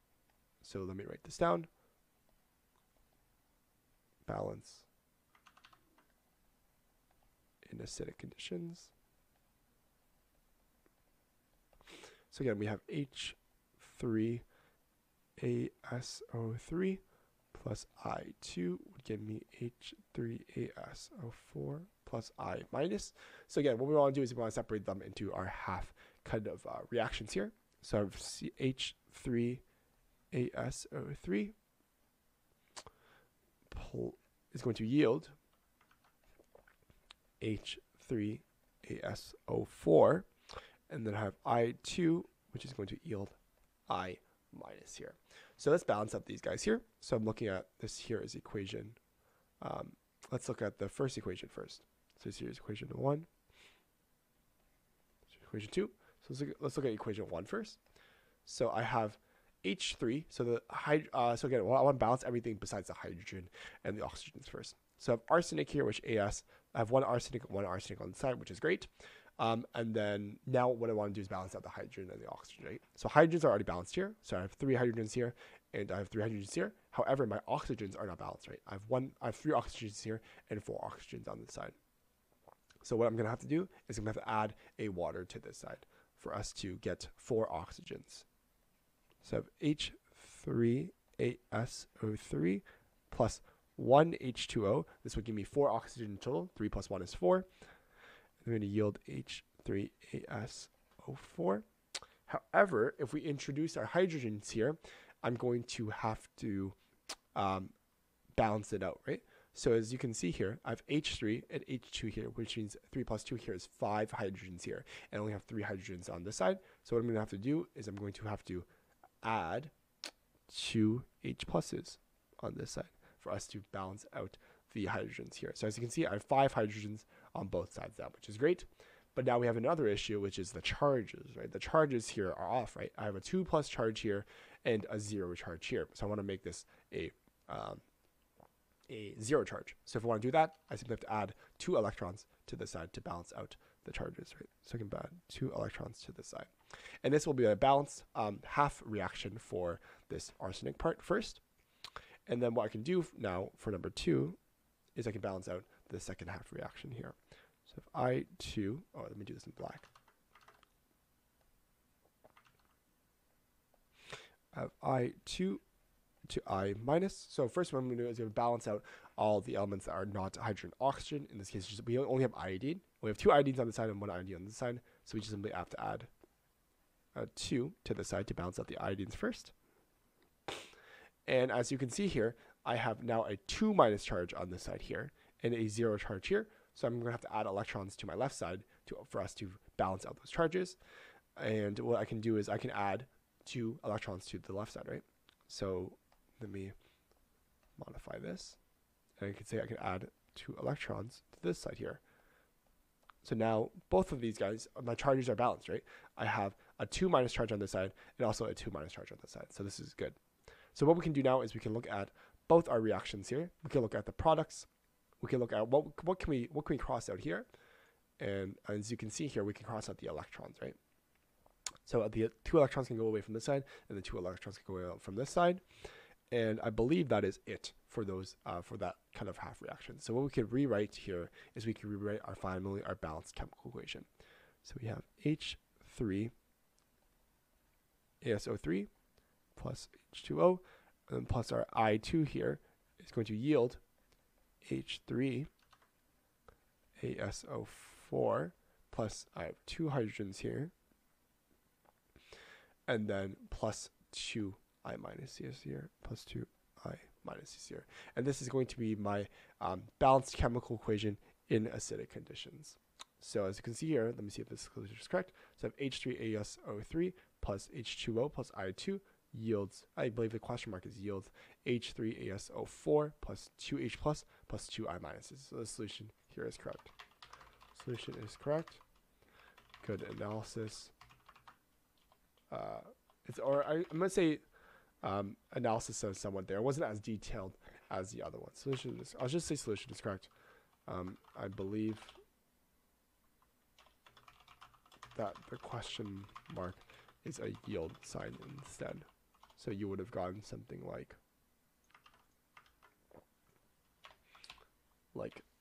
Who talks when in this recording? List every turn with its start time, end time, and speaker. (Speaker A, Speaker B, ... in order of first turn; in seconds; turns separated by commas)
Speaker A: 0.6-1.7, Speaker A: 4.2-4.9, Speaker A: 7.6-8.9, Speaker A: 12.3-14.5, Speaker A: 15.4-17.0, Speaker A: 17.5-29.6, Speaker A: 30.3-31.6, Speaker A: 33.7-35.3, Speaker A: 37.4-40.3, Speaker A: 40.9-43.4, Speaker A: 43.9-49.0, Speaker A: 49.6-53.3, Speaker A: 55.3-57.8, Speaker A: 58.5-81.8, Speaker A: 82.8-88.3, Speaker A: 89.2-97.5, Speaker A: 98.4-101.7, Speaker A: 102.3-106.8, Speaker A: 107.3-107.7, Speaker A: 108.4-118.7, Speaker A: 119.2-119.7, Speaker A: 120.5-137.8, Speaker A: 138.9-146.5, Speaker A: 147.0-151.4, Speaker A: 152.3-154.4, Speaker A: 155.0-159.9, Speaker A: 164.5-165.6, Speaker A: 166.3-176.1, Speaker A: 177.2-179.5, Speaker A: 181.3-190.8, Speaker A: 191.4-196.8, Speaker A: 197.8-198.6, Speaker A: 199.2-202.0, Speaker A: 203.2-210.2, Speaker A: 210.7-214.7, Speaker A: 215.2-217.5, Speaker A: 218.2-220.8, Speaker A: 221.9-225.6, Speaker A: 226.3-234.1, Speaker A: 234.6-236.3, Speaker A: 238.2-238.9, Speaker A: 239.6-243.8, Speaker A: 244.6-245.5, Speaker A: 247.0-250.7, Speaker A: 252.9-276.9, Speaker A: 277.7-278.8, Speaker A: 279.8-280.9, Speaker A: 282.5-284.4, Speaker A: 285.0-290.3, Speaker A: 290.9-292.2, Speaker A: 295.1-301.2, Speaker A: 305.1-305.4